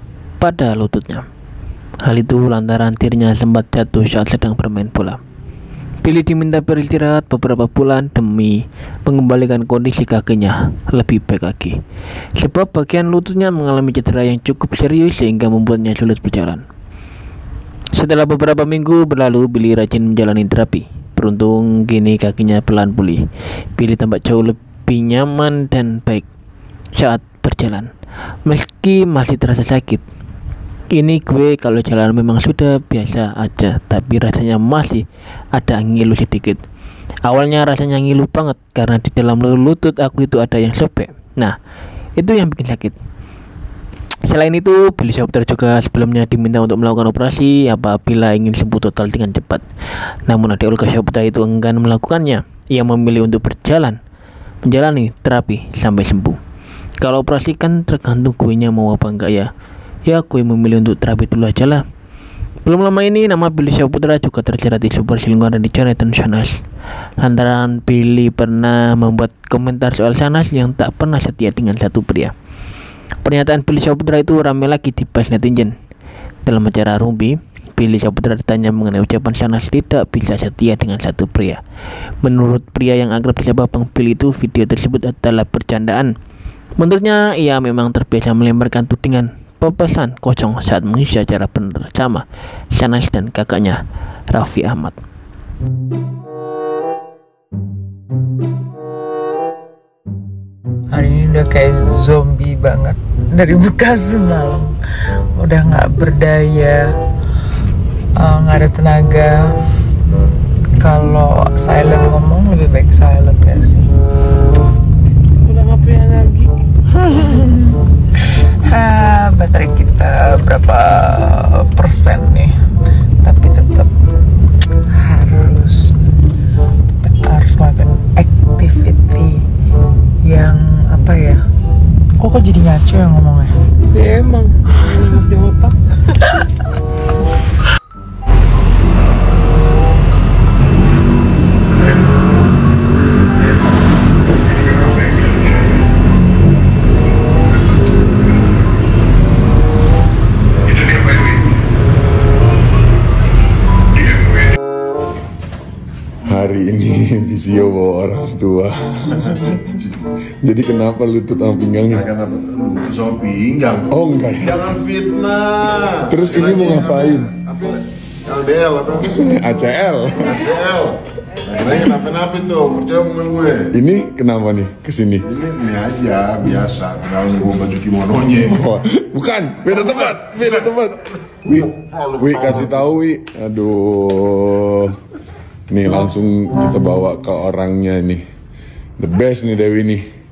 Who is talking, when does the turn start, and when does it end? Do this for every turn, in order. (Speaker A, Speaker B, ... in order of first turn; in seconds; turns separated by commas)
Speaker A: 0.4-1.2, Speaker A: 2.0-5.2, Speaker A: 6.0-11.8, Speaker A: 12.4-16.6, Speaker A: 17.9-26.3, Speaker A: 26.9-27.9, Speaker A: 28.5-30.0, Speaker A: 30.9-36.6, Speaker A: 37.2-41.5, Speaker A: 42.2-43.0, Speaker A: 44.2-49.6, Speaker A: 50.3-54.0, Speaker A: 54.6-56.4, Speaker A: 57.0-59.5, Speaker A: 60.1-61.8, Speaker A: 62.6-66.6, Speaker A: 67.2-72.3, Speaker A: 73.2-75.7, Speaker A: 76.5-81.6, Speaker A: 82.2-86.1, Speaker A: 86.8-95.0, Speaker B: 100.9-104.8, Speaker B: 105.3-106.9, Speaker B: 108.2-109.5, Speaker B: 110.8-113.9, Speaker C: 115.4-116.6, Speaker B: 116.9-117.8, Speaker B: 118.5-122.5, Speaker B: 123.2-123.9, Speaker B: 124.9-126.0, Speaker B: 127.0-129.4, Speaker B: 130.2-131.4, Speaker B: 132.2-133.6, Speaker C: 133.9-135.8, Speaker D: 156.2-159.9, Speaker D: 160.4-162.1, Speaker E: 161.9-169.2, Speaker D: 163.9-164.7, Speaker D: 166.1-167.3, Speaker D: 169.1-170.4, Speaker E: 170.2-173.7, Speaker D: 173.7-175.3, Speaker E: 175.2-178.6, Speaker D: 178.4-185.0, Speaker E: 179.7-180.1, Speaker E: 181.7-182.6, Speaker D: 185.7-188.2, Speaker D: 189.0-190.1